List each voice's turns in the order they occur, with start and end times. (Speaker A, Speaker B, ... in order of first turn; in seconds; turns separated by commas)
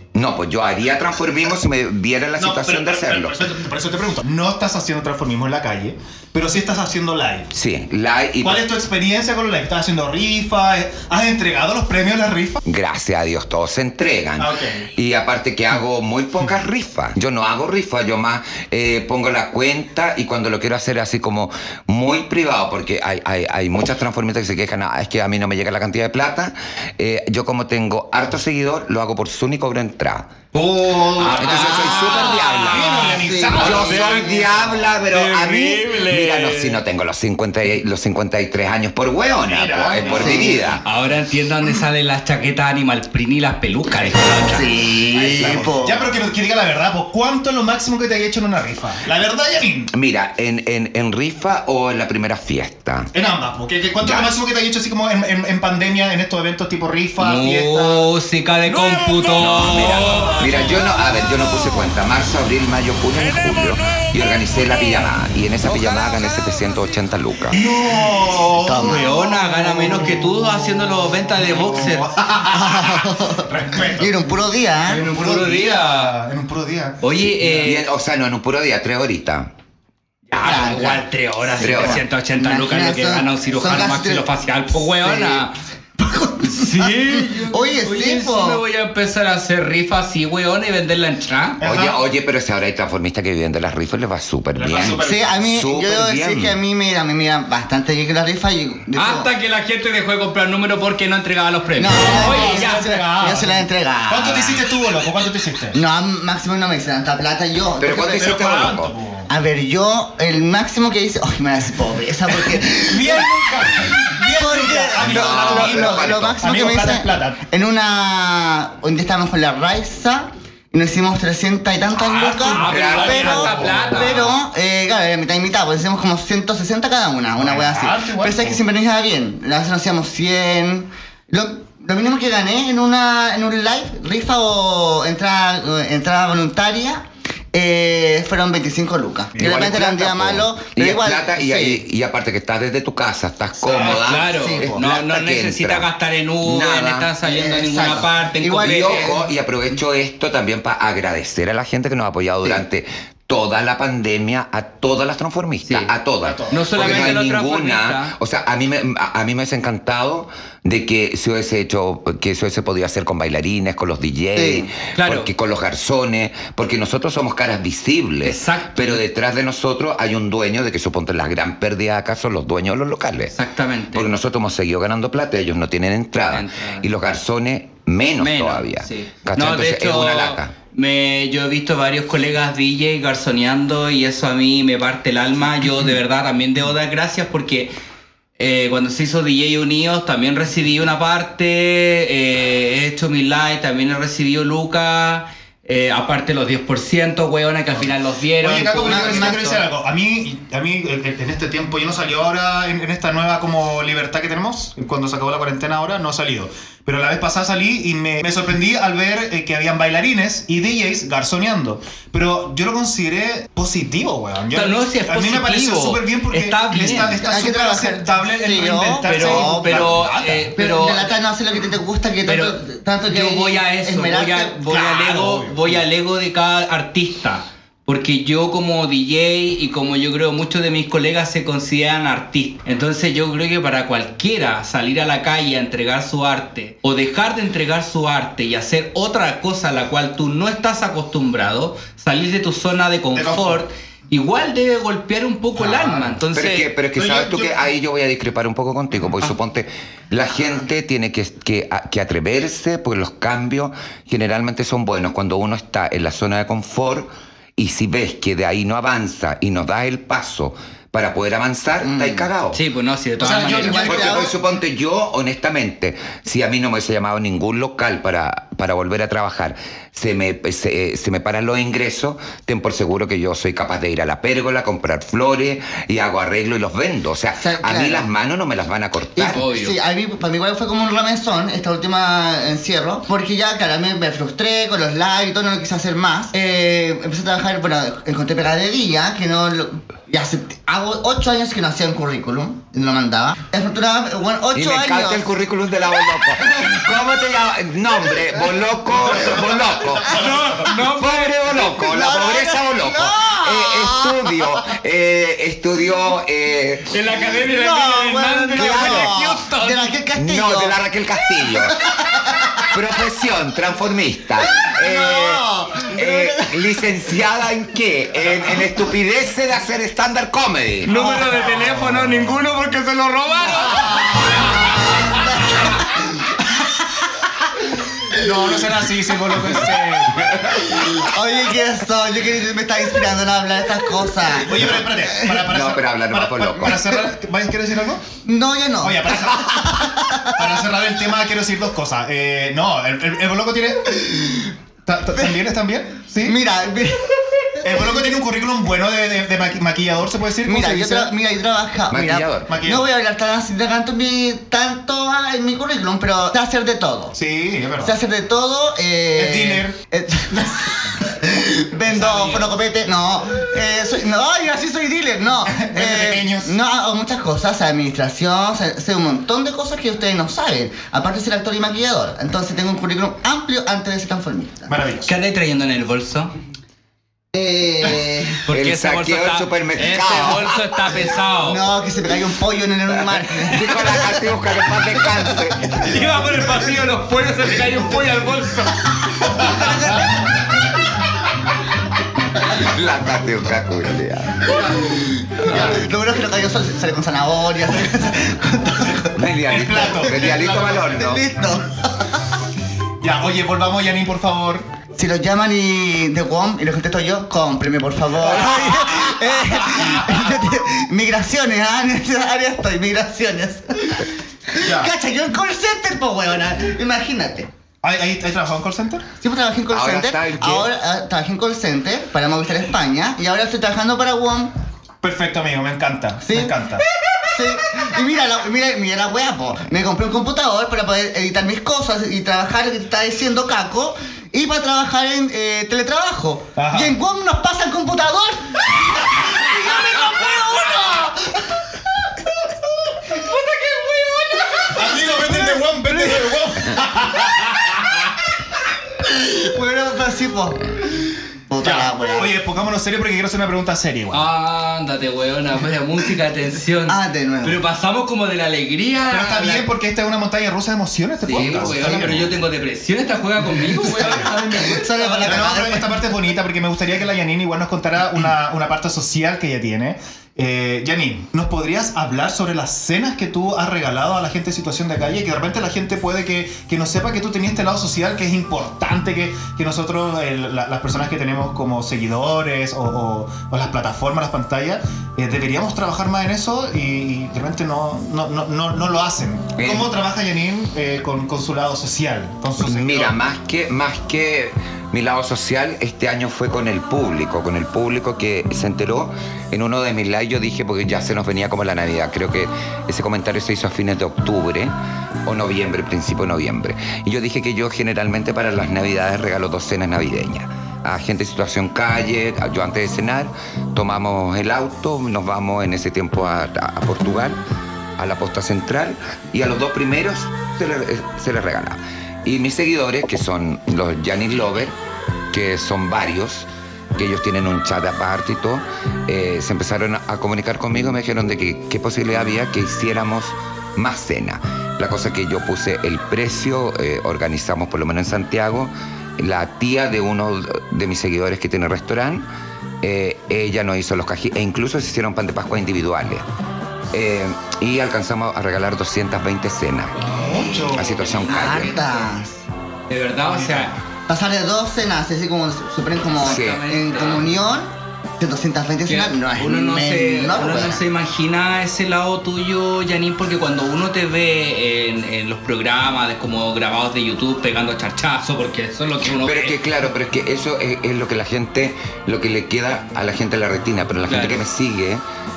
Speaker A: 0.1-3.5, Speaker B: 2.4-7.5, Speaker A: 7.5-8.7, Speaker B: 8.4-12.6, Speaker A: 12.6-30.4, Speaker B: 14.4-14.9, Speaker B: 30.5-34.4, Speaker C: 31.1-36.8, Speaker A: 31.2-40.8, Speaker D: 33.3-33.5, Speaker B: 39.4-40.8, Speaker D: 40.1-40.6, Speaker C: 40.8-44.8, Speaker D: 44.5-46.0, Speaker B: 45.1-49.9, Speaker A: 45.4-45.6, Speaker A: 49.9-53.1, Speaker B: 53.1-58.1, Speaker A: 54.0-54.3, Speaker C: 57.2-60.5, Speaker A: 59.3-67.6, Speaker B: 59.4-60.8, Speaker B: 67.5-70.2, Speaker D: 68.6-69.1, Speaker C: 68.8-72.2, Speaker B: 71.4-74.1, Speaker D: 72.4-75.0, Speaker C: 74.8-76.2, Speaker B: 74.9-77.7, Speaker C: 77.0-77.9, Speaker A: 77.6-79.5, Speaker C: 80.3-85.5, Speaker D: 80.4-84.3, Speaker A: 81.6-82.0, Speaker D: 85.0-85.5, Speaker D: 86.0-88.6, Speaker C: 86.4-91.6, Speaker B: 91.6-92.0, Speaker A: 91.6-96.6, Speaker B: 94.5-95.5, Speaker D: 95.0-99.3, Speaker C: 99.0-102.9, Speaker D: 101.8-104.6, Speaker B: 102.1-105.8, Speaker D: 105.7-108.4, Speaker A: 107.8-108.9, Speaker B: 108.1-109.3, Speaker D: 109.3-141.8, Speaker B: 112.4-117.4, Speaker A: 115.0-116.4, Speaker C: 122.1-124.4, Speaker B: 122.1-124.2, Speaker A: 122.7-123.5, Speaker B: 127.4-128.6, Speaker B: 139.3-139.8, Speaker A: 139.4-145.9, Speaker B: 143.7-144.0, Speaker C: 143.7-149.2, Speaker D: 144.2-144.8, Speaker A: 146.4-147.1, Speaker D: 147.2-149.2, Speaker A: 148.6-173.3, Speaker B: 156.2-157.2, Speaker C: 156.5-158.1, Speaker D: 164.3-164.7, Speaker C: 164.9-165.3, Speaker C: 168.2-169.0, Speaker C: 173.3-174.1, Speaker A: 173.9-180.5, Speaker C: 176.3-176.8, Speaker C: 178.2-187.7, Speaker C: 188.4-199.6, Speaker B: 198.4-220.5, Speaker D: 198.8-199.4, Speaker C: 214.5-217.2, Speaker D: 217.2-220.0, Speaker C: 219.0-221.2, Speaker D: 220.6-224.6, Speaker C: 222.2-246.7, Speaker B: 224.7-225.8, Speaker B: 243.1-243.6, Speaker B: 245.6-246.2, Speaker A: 246.3-262.6, Speaker B: 246.9-247.6, Speaker D: 261.8-262.3, Speaker C: 262.5-264.1, Speaker B: 263.2-264.3, Speaker D: 263.4-264.3, Speaker A: 263.8-279.4, Speaker D: 277.4-278.1, Speaker D: 279.1-295.2, Speaker C: 279.3-279.8, Speaker A: 294.5-306.9, Speaker D: 296.4-296.8, Speaker B: 299.1-300.7, Speaker C: 300.0-301.5, Speaker D: 301.5-304.4, Speaker C: 306.9-309.9, Speaker D: 307.3-310.8, Speaker A: 308.5-309.1, Speaker A: 310.1-311.8, Speaker D: 311.4-312.7, Speaker A: 312.7-320.9, Speaker D: 314.6-316.8, Speaker C: 320.8-325.1, Speaker D: 320.9-321.5, Speaker B: 321.2-322.1, Speaker D: 323.6-325.9, Speaker B: 328.1-330.6, Speaker D: 330.7-335.2, Speaker B: 334.3-338.0, Speaker A: 335.4-336.9, Speaker D: 338.2-340.4, Speaker B: 338.8-346.4, Speaker D: 346.2-347.6, Speaker B: 347.6-351.1, Speaker D: 350.4-357.1, Speaker A: 351.9-352.5, Speaker B: 352.5-352.9, Speaker B: 357.1-357.9, Speaker D: 357.8-374.7, Speaker B: 359.1-359.8, Speaker C: 361.9-362.4, Speaker B: 365.4-366.5, Speaker B: 374.7-375.1, Speaker C: 375.1-376.3, Speaker D: 377.3-378.4, Speaker C: 378.4-381.6, Speaker A: 378.5-380.6, Speaker D: 381.4-384.2, Speaker A: 383.3-385.9, Speaker C: 385.7-389.7, Speaker A: 392.4-394.6, Speaker B: 394.4-395.9, Speaker D: 394.8-399.2, Speaker A: 399.1-401.3, Speaker B: 399.5-401.1, Speaker D: 399.8-402.2, Speaker B: 403.0-404.7, Speaker D: 404.9-417.5, Speaker B: 408.2-410.3, Speaker B: 414.6-414.9, Speaker B: 417.8-419.1, Speaker D: 419.2-424.5, Speaker A: 419.7-420.7, Speaker B: 425.0-426.8, Speaker D: 426.2-426.6, Speaker D: 427.2-442.1, Speaker B: 436.6-436.9, Speaker D: 442.9-446.4, Speaker B: 444.7-447.8, Speaker D: 449.1-450.8, Speaker D: 451.5-452.3, Speaker B: 451.6-454.2, Speaker C: 454.1-459.7, Speaker D: 456.9-457.6, Speaker B: 459.1-462.2, Speaker C: 461.2-465.3, Speaker A: 461.3-461.7, Speaker D: 461.8-462.2, Speaker B: 463.8-464.6, Speaker D: 464.2-466.0, Speaker B: 465.2-493.1, Speaker A: 489.6-489.9, Speaker A: 492.6-504.7, Speaker A: 505.2-517.4, Speaker A: 518.0-524.8, Speaker A: 525.3-542.3, Speaker A: 542.8-546.2, Speaker A: 546.9-550.1, Speaker B: 550.0-551.0, Speaker A: 550.7-551.8, Speaker D: 551.2-552.4, Speaker C: 552.9-553.8, Speaker B: 553.2-553.7, Speaker D: 554.1-560.8, Speaker C: 556.1-557.3, Speaker A: 556.2-556.7, Speaker C: 558.9-569.6, Speaker A: 569.1-575.0, Speaker C: 574.1-574.4